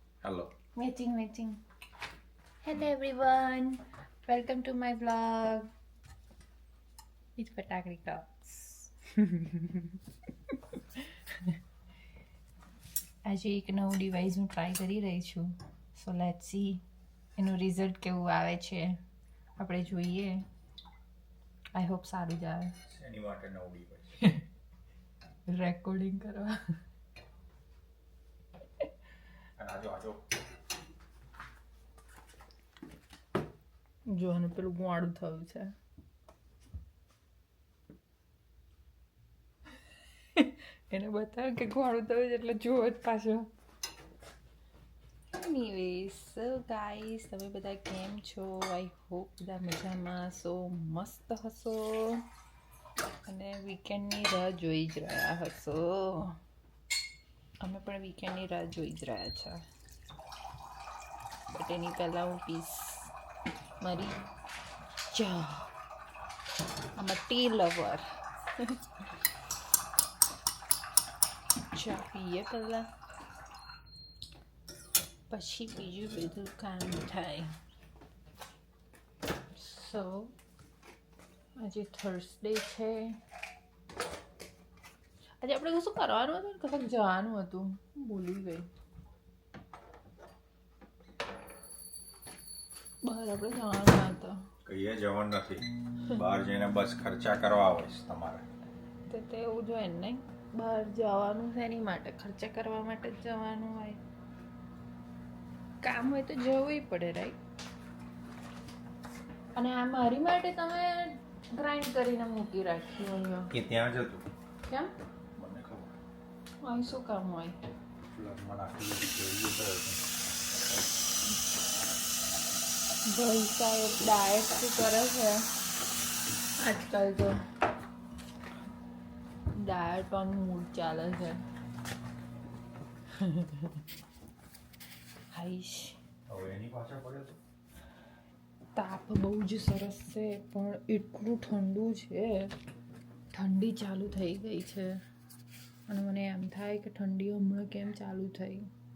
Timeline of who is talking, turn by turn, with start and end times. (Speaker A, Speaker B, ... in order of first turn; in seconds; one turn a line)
Speaker A: 0.2-0.5
Speaker B: 0.8-1.6
Speaker B: 2.6-5.7
Speaker B: 7.3-9.8
Speaker B: 13.2-16.8
Speaker B: 17.4-19.0
Speaker B: 19.6-20.4
Speaker B: 21.7-22.7
Speaker A: 22.9-24.2
Speaker B: 25.5-26.6
Speaker A: 29.6-30.2
Speaker B: 34.1-35.7
Speaker B: 40.4-43.5
Speaker B: 45.3-52.2
Speaker B: 53.2-56.4
Speaker B: 57.6-59.6
Speaker B: 61.5-63.1
Speaker B: 63.8-64.2
Speaker B: 65.1-65.7
Speaker B: 67.0-68.0
Speaker B: 71.7-72.9
Speaker B: 75.3-77.5
Speaker B: 79.5-80.3
Speaker B: 81.6-83.2
Speaker B: 85.4-88.7
Speaker B: 93.0-94.4
Speaker A: 94.6-98.5
Speaker B: 99.1-104.0
Speaker B: 105.8-107.4
Speaker B: 109.5-113.5
Speaker A: 113.5-114.2
Speaker A: 115.3-116.0
Speaker B: 116.6-117.6
Speaker A: 118.1-120.1
Speaker B: 123.0-125.5
Speaker B: 126.6-127.4
Speaker B: 129.5-131.4
Speaker B: 133.1-133.7
Speaker B: 135.3-136.0
Speaker A: 136.3-137.4
Speaker B: 138.8-142.5
Speaker B: 143.3-144.9
Speaker B: 145.9-148.7